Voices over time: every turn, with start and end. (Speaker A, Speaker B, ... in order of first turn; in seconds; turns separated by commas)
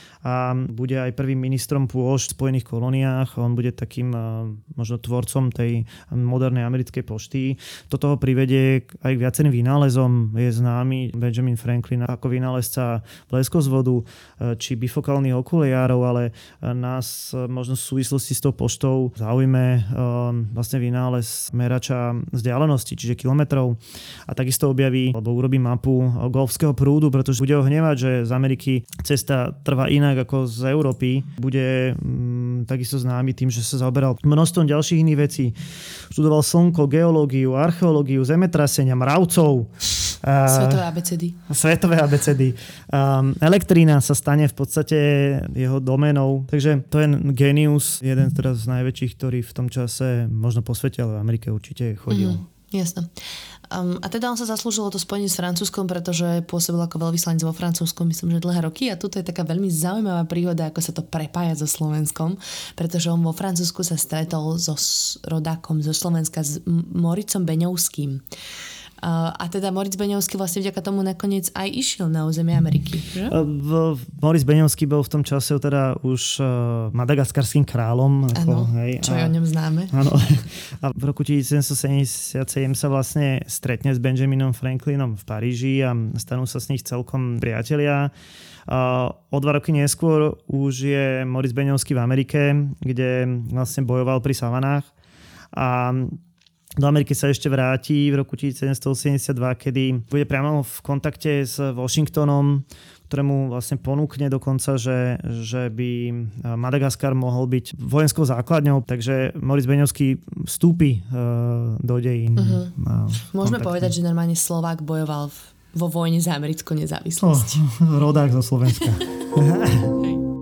Speaker A: 0.2-35.6, Speaker A: 36.1-40.9, Speaker B: 40.5-41.4, Speaker A: 41.5-52.4, Speaker B: 52.1-53.1, Speaker B: 53.7-68.2, Speaker B: 69.0-73.3, Speaker A: 73.3-79.3, Speaker B: 78.3-79.9, Speaker A: 79.9-88.1, Speaker A: 88.7-94.9, Speaker A: 95.5-96.2, Speaker A: 96.8-113.9, Speaker B: 112.4-112.7, Speaker B: 113.3-117.6, Speaker A: 117.2-119.9